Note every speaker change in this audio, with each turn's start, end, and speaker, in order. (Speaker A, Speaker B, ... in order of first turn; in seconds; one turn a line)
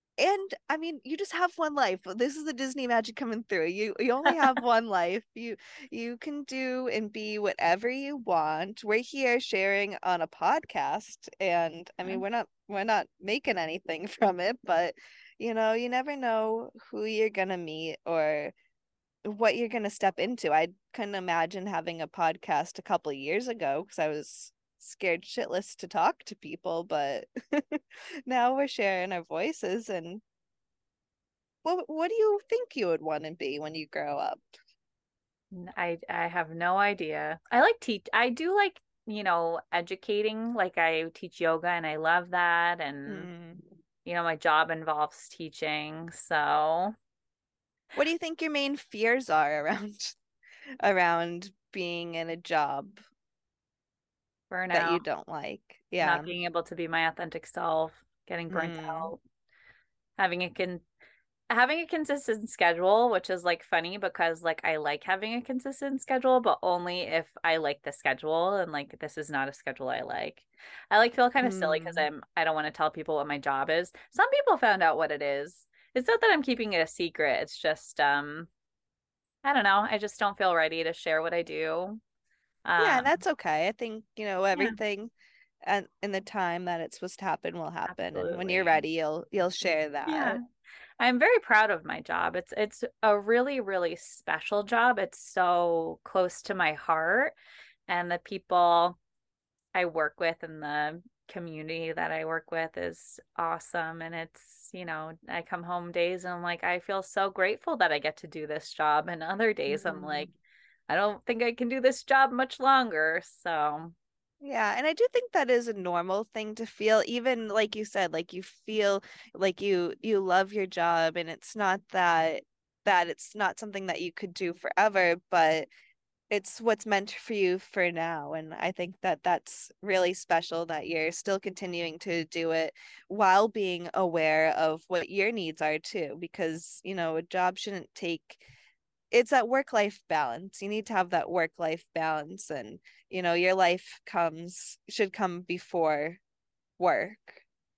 Speaker A: 0.2-18.5
Speaker A: 19.2-30.2
Speaker A: 31.6-34.4
Speaker B: 35.5-43.3
Speaker A: 43.1-43.7
Speaker B: 44.0-46.9
Speaker A: 48.0-50.2
Speaker A: 50.8-53.0
Speaker B: 54.5-55.1
Speaker A: 54.7-56.3
Speaker B: 56.0-59.2
Speaker A: 58.5-59.1
Speaker B: 60.2-60.8
Speaker B: 61.5-78.5
Speaker A: 71.4-72.1
Speaker B: 79.4-82.0
Speaker B: 82.7-83.2
Speaker A: 82.8-85.1
Speaker A: 85.6-90.4
Speaker B: 87.9-88.8
Speaker B: 90.1-90.4
Speaker B: 91.0-97.3
Speaker B: 97.9-99.0
Speaker B: 99.7-110.3
Speaker A: 109.7-110.3
Speaker B: 110.9-113.9
Speaker A: 114.4-125.7
Speaker A: 126.3-138.4
Speaker A: 139.1-146.2
Speaker A: 146.8-147.4